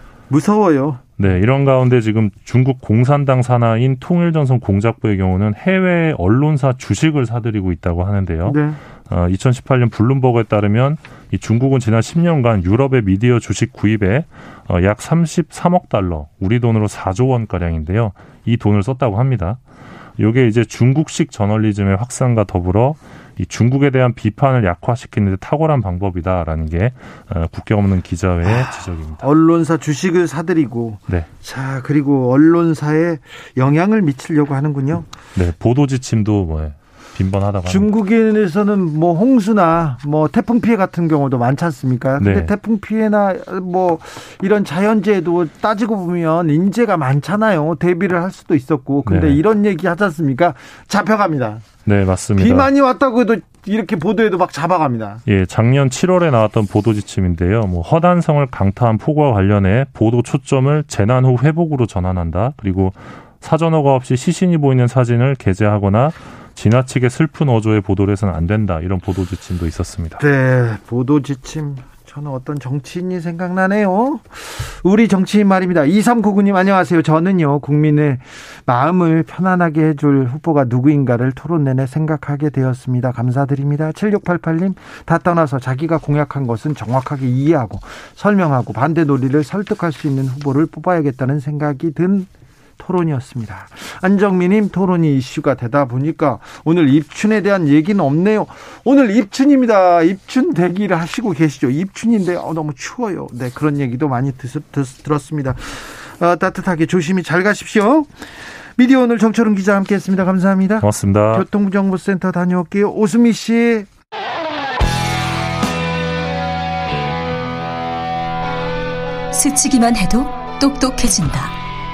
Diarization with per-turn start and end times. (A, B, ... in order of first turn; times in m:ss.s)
0:00.3-0:01.0 A
0:01.2-0:19.6 B
0:08.4-0:08.8 A
0:20.2-0:29.2 B
0:28.4-0:35.1 A
0:35.3-0:37.9 B
0:37.7-0:51.7 A
0:42.2-0:42.5 B
0:49.0-0:49.4 B
0:51.8-0:52.7 B
0:52.4-0:55.2 A
0:55.3-1:10.2 B
1:10.2-1:53.9 A
1:50.8-1:51.4 B
1:59.3-2:01.5 C